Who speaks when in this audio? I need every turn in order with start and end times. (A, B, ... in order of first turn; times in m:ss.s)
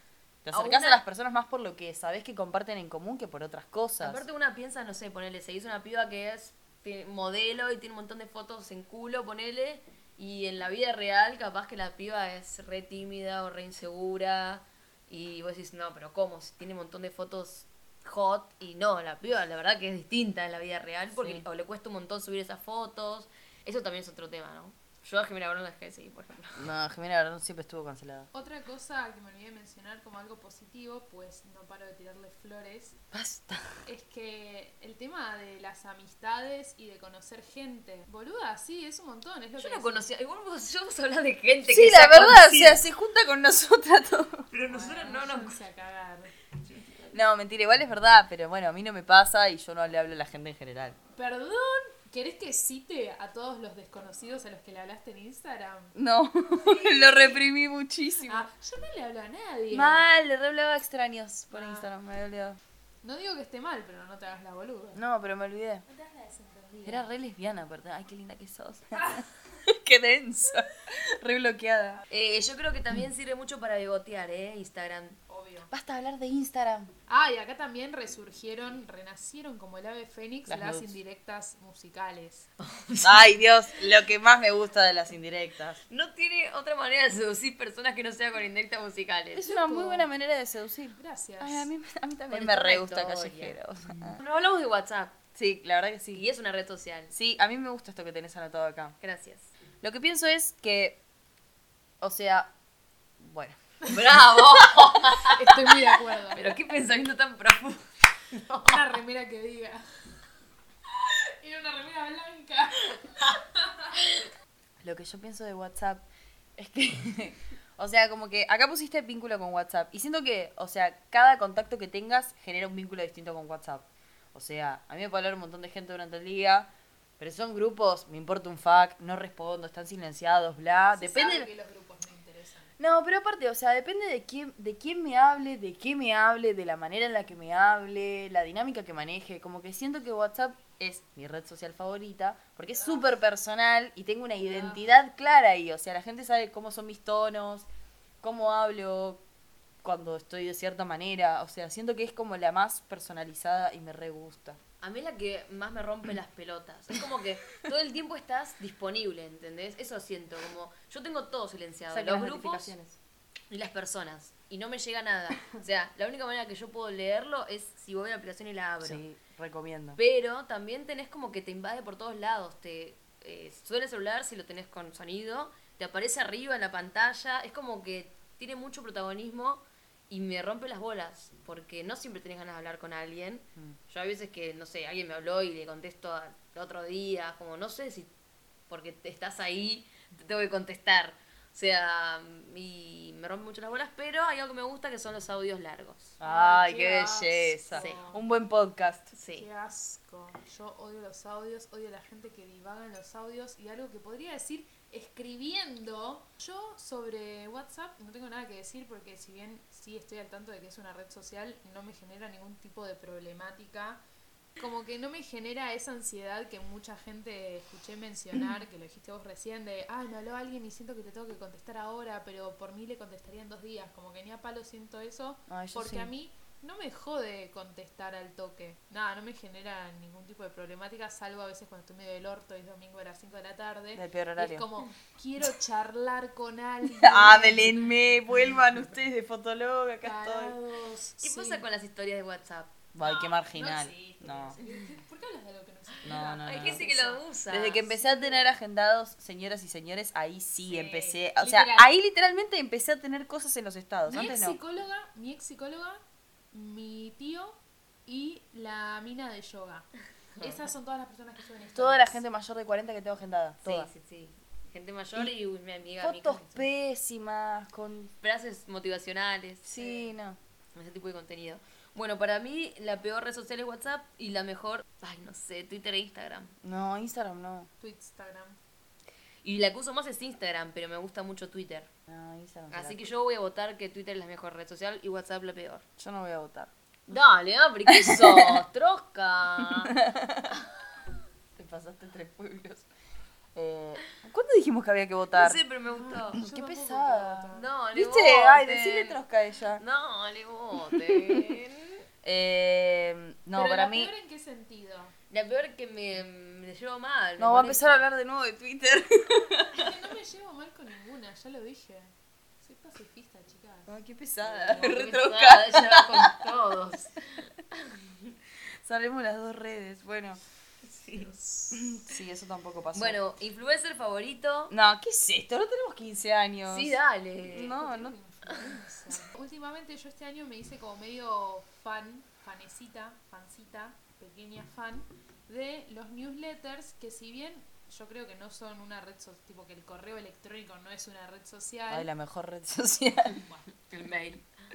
0:00.4-0:04.2 A
0:00.5-0:01.0 B
0:04.0-0:26.7 B
0:26.6-0:28.3 A
0:28.3-0:33.0 C
0:33.1-0:33.7 A
0:33.9-0:40.0 C
0:39.6-0:42.8 B
0:41.7-0:44.5 A
0:44.5-0:45.6 B
0:44.7-0:46.3 C
0:47.1-0:51.0 A
0:51.2-0:55.9 C
0:56.0-0:58.5 A
0:58.3-1:00.0 C
0:59.7-1:02.6 A
1:01.5-1:01.9 C
1:03.0-1:05.0 C
1:05.0-1:05.8 A
1:05.9-1:07.1 C
1:06.9-1:12.0 A
1:12.1-1:15.2 B
1:15.3-1:15.7 C
1:15.7-1:16.9 A
1:17.1-1:22.5 C
1:20.5-1:20.9 A
1:22.6-1:23.4 B
1:23.0-1:25.8 A
1:25.9-1:29.5 B
1:29.3-1:34.2 A
1:29.5-1:30.1 C
1:31.0-1:31.7 C
1:32.3-1:33.6 B
1:34.1-1:35.2 B
1:35.4-1:36.2 A
1:36.1-1:37.1 B
1:37.1-1:39.0 A
1:39.0-1:39.5 B
1:39.8-1:41.0 A
1:42.0-1:42.5 A
1:43.2-1:43.6 A
1:43.9-1:48.9 B
1:45.2-1:46.4 C
1:48.6-1:49.8 C
1:50.9-1:54.0 C
1:54.8-1:56.0 A
1:56.6-2:11.5 A
2:11.0-2:12.8 C
2:12.8-2:27.7 A
2:22.7-2:23.2 C
2:28.2-2:29.2 A
2:29.8-2:34.6 A
2:34.8-2:42.7 B
2:41.9-2:43.0 A
2:43.5-2:49.0 B
2:48.8-2:50.0 A
2:50.0-3:08.1 B
3:08.7-3:16.2 B
3:16.2-3:19.1 A
3:16.2-3:18.2 C
3:17.8-3:18.0 B
3:19.1-3:19.5 B
3:19.3-3:34.0 C
3:34.6-3:58.9 C
3:45.5-3:46.1 A
3:54.0-3:54.7 A
3:56.9-4:00.6 A
4:00.0-4:01.7 C
4:01.2-4:02.8 B
4:02.9-4:04.6 A
4:03.0-4:08.5 C
4:04.6-4:04.9 B
4:06.0-4:06.9 A
4:06.4-4:07.9 B
4:07.5-4:14.6 A
4:10.7-4:11.9 C
4:14.1-4:16.0 C
4:16.5-4:22.2 C
4:21.8-4:23.9 A
4:23.6-4:26.7 B
4:26.0-4:28.1 A
4:28.2-4:30.1 B
4:29.6-4:30.4 A
4:30.8-4:36.5 B
4:36.6-4:37.7 A
4:37.8-4:38.6 C
4:39.4-4:41.9 B
4:42.1-4:43.1 A
4:42.7-4:45.8 B
4:46.0-4:47.2 A
4:47.1-4:49.9 B
4:47.9-4:48.6 A
4:49.8-4:50.5 A
4:51.6-4:52.9 A
4:53.6-4:55.6 A
4:55.3-4:56.4 B
4:55.9-4:57.7 C
4:56.3-4:59.8 A
4:57.5-4:59.2 B
4:59.8-5:02.1 B
5:00.9-5:01.6 A
5:02.2-5:04.1 A
5:03.5-5:05.2 C
5:05.3-5:08.1 B
5:07.4-5:10.0 A
5:09.7-5:14.0 C
5:13.9-5:16.3 A
5:14.5-5:18.0 B
5:18.8-5:20.4 A
5:20.8-5:21.8 B
5:21.2-5:21.6 C
5:21.7-5:23.2 A
5:22.9-5:24.7 B
5:24.7-5:27.0 A
5:26.7-5:27.8 B
5:27.5-5:28.2 A
5:27.7-5:42.1 C
5:41.9-5:43.4 A
5:43.3-5:43.7 C
5:43.9-5:44.5 B